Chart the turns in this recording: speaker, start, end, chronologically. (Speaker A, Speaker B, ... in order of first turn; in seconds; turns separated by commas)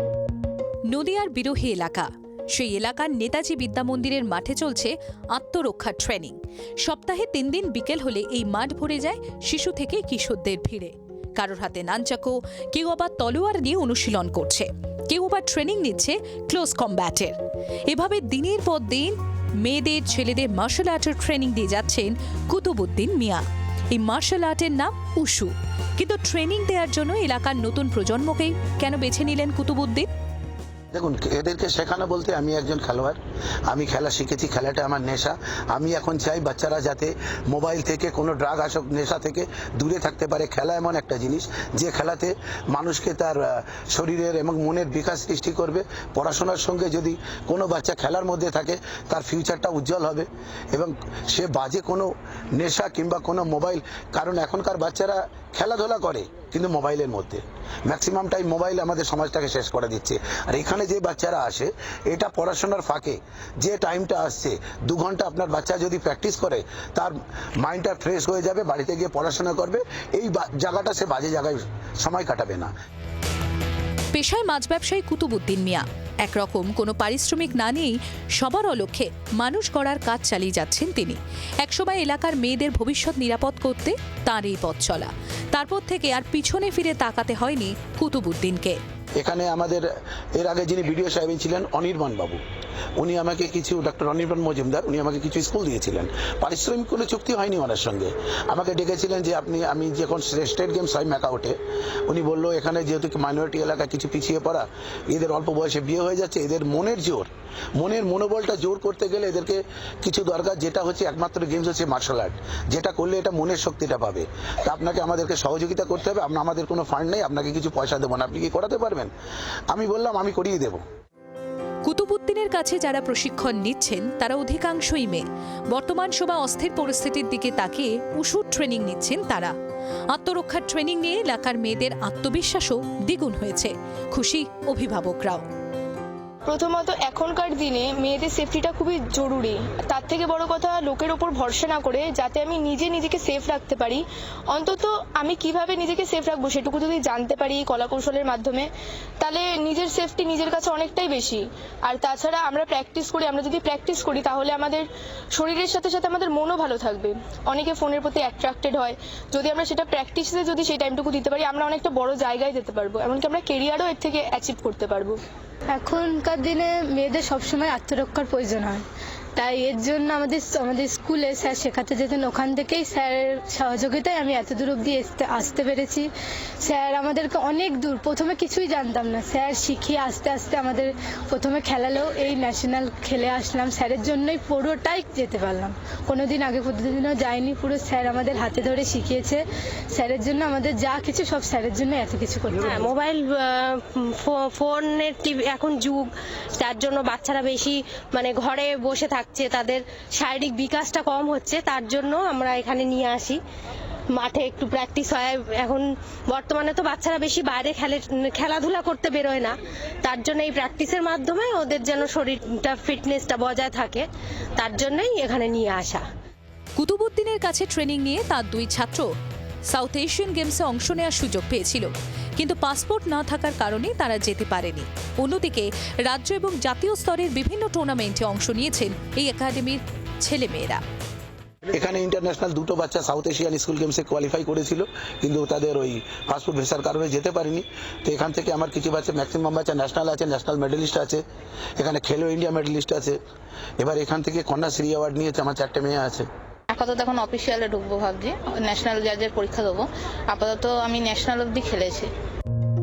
Speaker A: 0.9-17.4, Speaker A: 17.9-23.4, Speaker A: 23.9-30.1, Speaker B: 30.9-72.7, Speaker A: 74.1-88.8, Speaker B: 89.2-92.4, Speaker B: 93.0-119.1, Speaker B: 119.7-120.8, Speaker A: 121.8-129.5, Speaker A: 130.1-135.5, Speaker C: 136.5-144.0, Speaker C: 144.6-148.6, Speaker C: 149.2-151.4, Speaker C: 151.9-154.8, Speaker C: 155.4-165.1, Speaker D: 165.7-168.8, Speaker D: 169.4-176.1, Speaker D: 176.6-192.9, Speaker E: 192.7-203.4, Speaker E: 204.1-216.0, Speaker A: 216.8-219.1, Speaker A: 219.7-230.8, Speaker B: 231.7-241.2, Speaker B: 241.8-243.2, Speaker B: 243.8-246.3, Speaker F: 246.7-252.1